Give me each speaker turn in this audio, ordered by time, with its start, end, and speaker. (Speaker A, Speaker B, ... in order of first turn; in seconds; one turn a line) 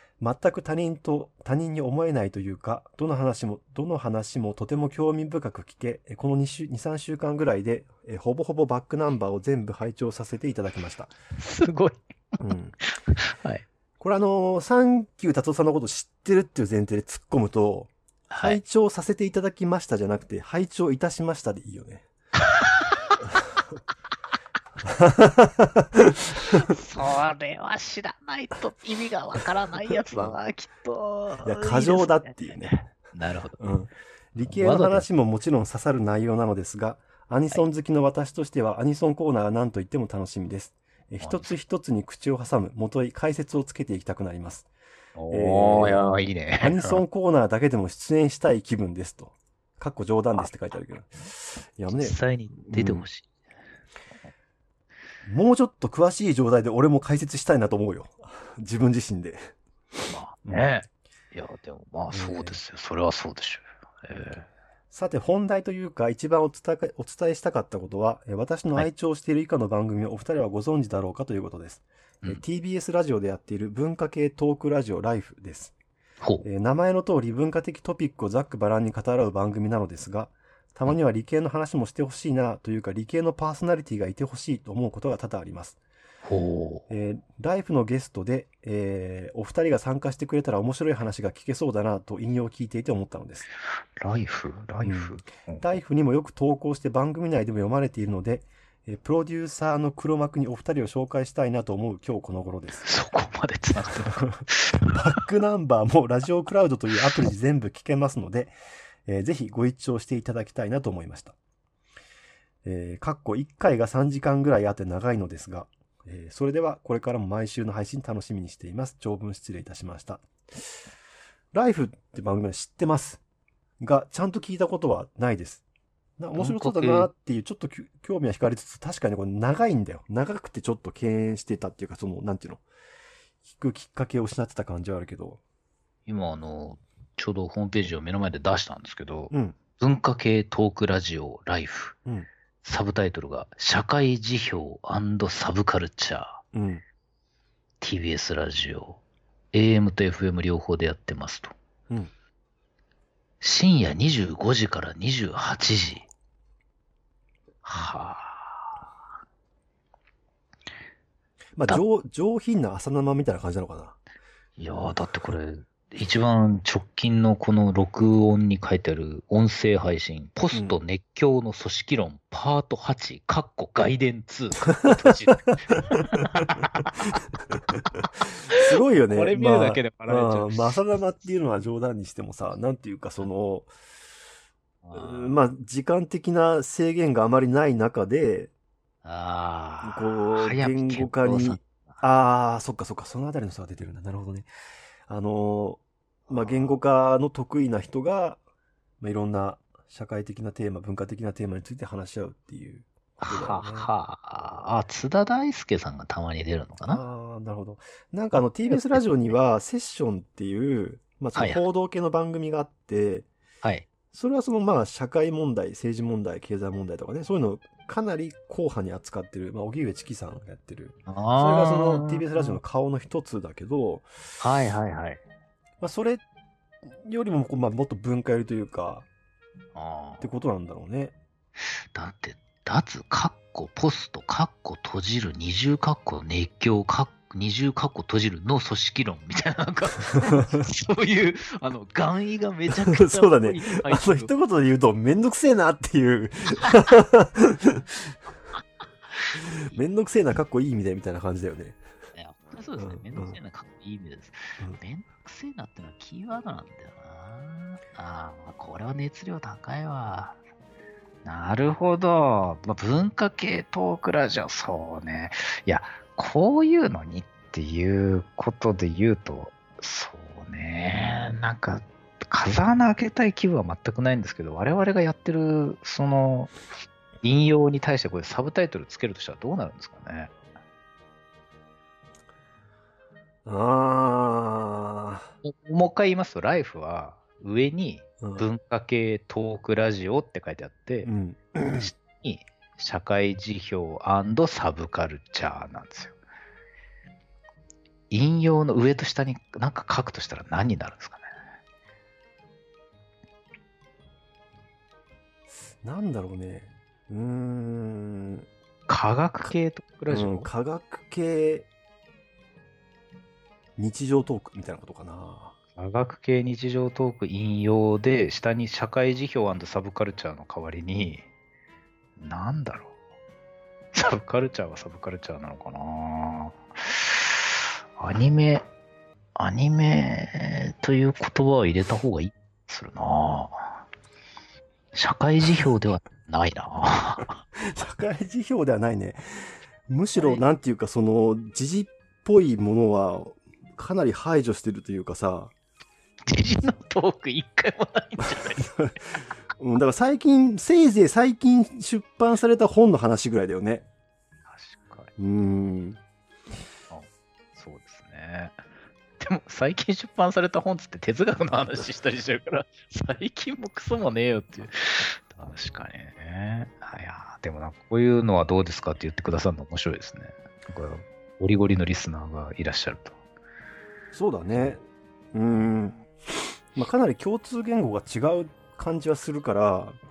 Speaker A: 0.2-11.1
Speaker B: 11.4-12.4
Speaker A: 12.4-12.8
Speaker B: 13.0-13.6
Speaker A: 14.0-22.1
Speaker B: 18.3-18.6
Speaker B: 22.4-23.1
Speaker A: 24.8-26.7
Speaker B: 26.5-33.6
Speaker A: 29.9-30.3
Speaker A: 31.4-32.8
Speaker A: 33.6-44.7
Speaker B: 34.4-35.0
Speaker B: 41.2-41.5
Speaker B: 45.1-47.0
Speaker A: 45.3-46.1
Speaker A: 46.6-53.0
Speaker B: 52.0-53.3
Speaker A: 55.2-59.5
Speaker B: 60.1-64.5
Speaker A: 62.1-62.6
Speaker A: 64.9-75.7
Speaker A: 76.4-85.8
Speaker B: 86.2-86.9
Speaker A: 86.9-93.5
Speaker B: 94.0-95.8
Speaker A: 94.8-102.9
Speaker B: 102.8-104.9
Speaker A: 104.0-108.5
Speaker A: 109.0-111.3
Speaker A: 112.6-120.2
Speaker A: 121.5-123.2
Speaker A: 123.8-125.6
Speaker A: 126.2-132.6
Speaker B: 126.4-127.1
Speaker A: 133.4-135.4
Speaker B: 136.1-141.9
Speaker A: 139.3-139.6
Speaker B: 142.6-146.4
Speaker A: 146.5-146.8
Speaker B: 147.8-149.0
Speaker B: 149.5-151.5
Speaker B: 153.4-156.1
Speaker B: 157.6-158.8
Speaker A: 161.6-164.0
Speaker B: 164.6-176.9
Speaker A: 170.5-170.8
Speaker A: 175.5-183.7
Speaker B: 178.6-180.8
Speaker B: 184.8-185.3
Speaker A: 184.9-188.5
Speaker B: 189.0-192.0
Speaker A: 189.8-194.5
Speaker A: 195.1-198.4
Speaker B: 196.3-196.7
Speaker A: 199.0-203.9
Speaker B: 203.2-207.0
Speaker A: 206.8-213.3
Speaker B: 208.7-209.0
Speaker B: 211.3-211.6
Speaker B: 213.6-213.9
Speaker A: 214.1-224.1
Speaker B: 221.1-222.6
Speaker B: 224.4-225.2
Speaker A: 225.8-226.2
Speaker A: 227.0-229.1
Speaker B: 229.7-230.3
Speaker A: 230.2-231.1
Speaker B: 231.9-244.3
Speaker A: 242.8-248.1
Speaker A: 249.3-251.8
Speaker B: 252.1-260.4
Speaker A: 252.8-253.4
Speaker B: 261.2-276.6
Speaker B: 277.2-280.3
Speaker A: 283.4-285.3
Speaker B: 285.4-291.1
Speaker A: 288.2-288.5
Speaker A: 291.0-291.9
Speaker B: 291.7-296.1
Speaker B: 298.1-301.3
Speaker A: 305.8-308.5
Speaker B: 308.9-310.5
Speaker A: 310.1-311.7
Speaker A: 313.8-315.5
Speaker B: 315.8-321.2
Speaker B: 322.2-322.9
Speaker B: 323.9-328.6
Speaker B: 329.4-333.8
Speaker B: 334.9-337.4
Speaker A: 337.6-345.5
Speaker B: 340.2-340.4
Speaker B: 346.3-348.7
Speaker A: 348.2-349.0
Speaker A: 349.6-353.9
Speaker B: 354.5-355.1
Speaker A: 355.2-356.0
Speaker B: 356.9-358.6
Speaker B: 359.2-373.2
Speaker A: 374.1-374.8
Speaker A: 375.3-376.0
Speaker A: 376.7-380.0